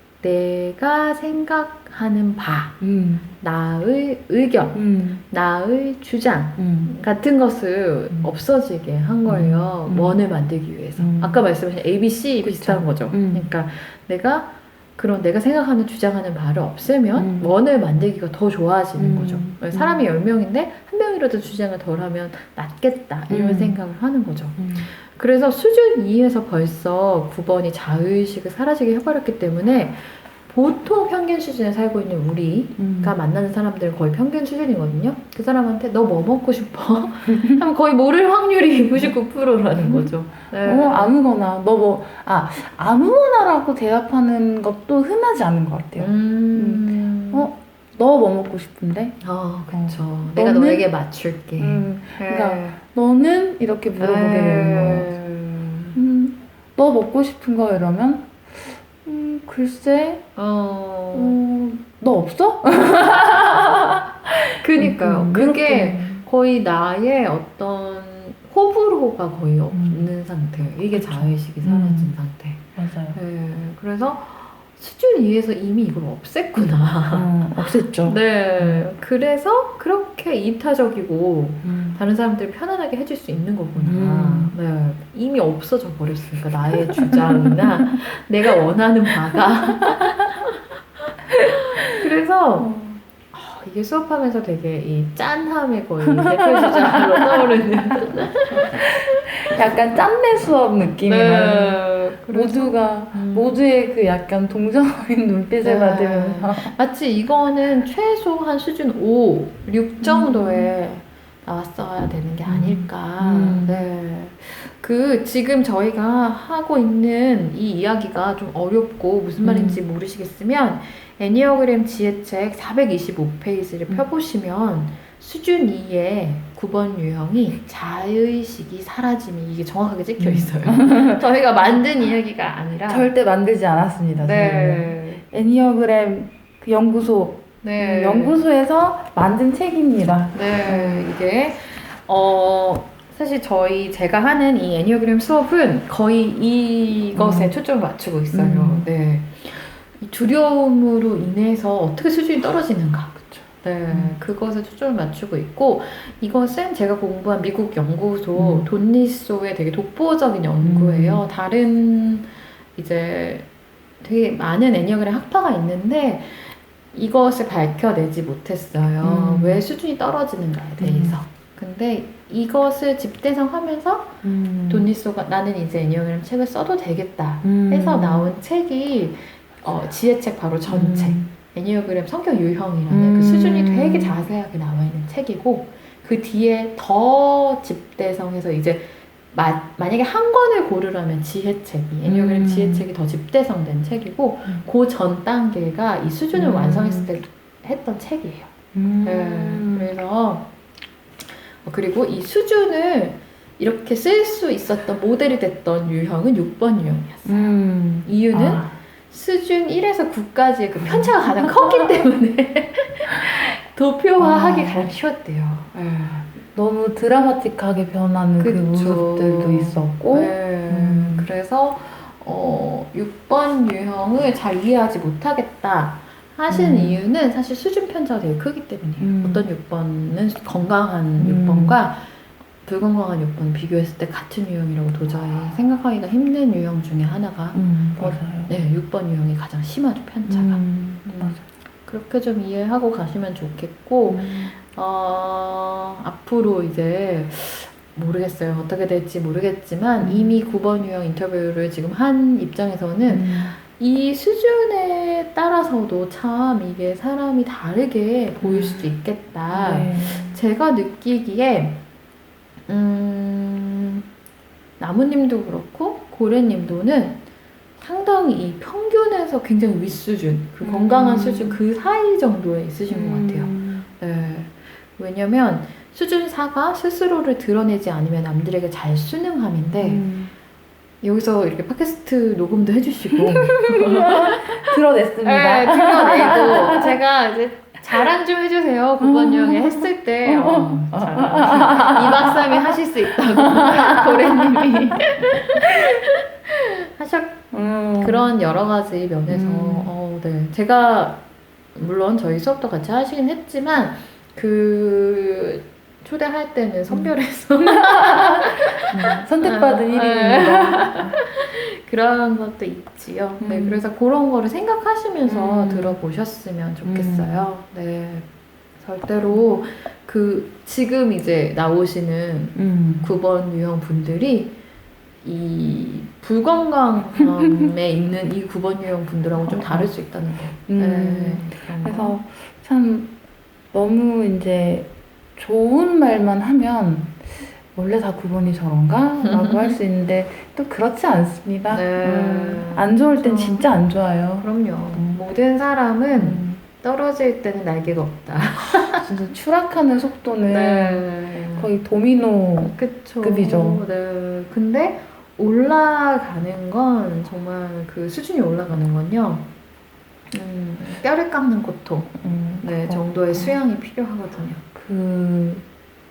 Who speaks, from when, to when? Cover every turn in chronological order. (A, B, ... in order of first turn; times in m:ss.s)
0:00.2-0:02.8 A
0:02.8-0:03.3 B
0:03.4-0:41.1 A
0:04.7-0:05.2 B
0:06.6-0:06.9 B
0:09.2-0:10.2 B
0:11.0-0:11.4 B
0:12.4-0:13.5 B
0:17.2-0:17.5 B
0:19.0-0:20.0 B
0:23.3-0:23.8 B
0:24.6-0:24.9 B
0:32.8-0:33.2 B
0:37.3-0:37.6 B
0:39.8-0:49.2 B
0:46.0-0:47.5 A
0:49.2-0:52.8 A
0:49.7-0:50.9 B
0:51.6-0:55.1 B
0:54.0-0:56.0 A
0:55.9-1:00.3 B
1:00.4-1:01.4 A
1:01.1-1:06.2 B
1:04.5-1:30.6 A
1:09.7-1:10.1 B
1:10.9-1:12.1 B
1:12.8-1:13.2 B
1:17.1-1:18.8 B
1:21.6-1:22.0 B
1:23.8-1:24.5 B
1:26.9-1:27.9 B
1:29.2-1:30.4 B
1:31.3-1:32.1 B
1:31.4-1:32.7 A
1:32.6-1:33.0 B
1:33.3-1:39.5 A
1:36.1-1:37.6 B
1:38.5-1:46.7 B
1:41.0-1:43.6 A
1:45.6-2:13.1 A
1:50.0-1:50.7 B
1:52.5-1:53.8 B
1:59.4-1:59.8 B
2:10.2-2:11.2 B
2:12.9-2:21.1 B
2:14.2-2:15.2 A
2:17.6-2:18.4 A
2:20.3-2:43.5 A
2:27.1-2:27.6 B
2:28.3-2:28.9 B
2:33.2-2:34.2 B
2:38.4-2:38.7 B
2:40.6-2:41.2 B
2:44.0-3:20.5 A
2:49.0-2:49.6 B
2:50.8-2:51.2 B
2:54.2-2:54.9 B
2:57.4-2:58.3 B
3:00.7-3:01.3 B
3:02.9-3:04.2 B
3:12.1-3:12.9 B
3:16.4-3:17.1 B
3:18.7-3:19.9 B
3:21.6-3:27.5 A
3:27.3-3:28.8 B
3:28.0-3:36.3 A
3:30.8-3:31.9 B
3:34.2-3:34.9 B
3:36.4-3:41.3 B
3:38.4-3:52.1 A
3:46.5-3:47.0 B
3:49.0-3:49.4 B
3:51.2-3:51.8 B
3:52.6-4:21.8 A
3:57.5-3:58.5 B
4:00.3-4:01.4 B
4:04.1-4:04.5 B
4:10.0-4:10.4 B
4:13.1-4:13.6 B
4:18.4-4:18.9 B
4:19.5-4:20.4 B
4:22.7-4:24.0 A
4:24.8-4:27.2 A
4:27.8-4:40.0 A
4:30.6-4:31.6 B
4:32.9-4:33.9 B
4:39.8-4:40.3 B
4:41.0-4:57.5 A
4:43.3-4:47.0 B
4:49.0-4:56.0 B
4:57.5-4:58.3 B
4:58.0-5:18.3 A
4:59.3-4:59.9 B
5:06.9-5:11.2 B
5:13.4-5:13.8 B
5:15.2-5:16.0 B
5:16.9-5:17.5 B
5:18.8-5:24.6 A
5:22.6-5:23.1 B
5:25.2-5:32.2 A
5:29.4-5:29.9 B
5:30.7-5:33.1 B
5:33.7-5:45.2 B
5:39.2-5:39.8 A
5:41.7-5:43.6 A
5:44.4-5:49.1 A
5:46.1-5:46.6 B
5:49.0-5:53.8 B
5:50.5-5:51.7 A
5:52.6-5:59.5 A
6:00.3-6:04.6 A
6:02.2-6:03.6 B
6:04.7-6:05.6 B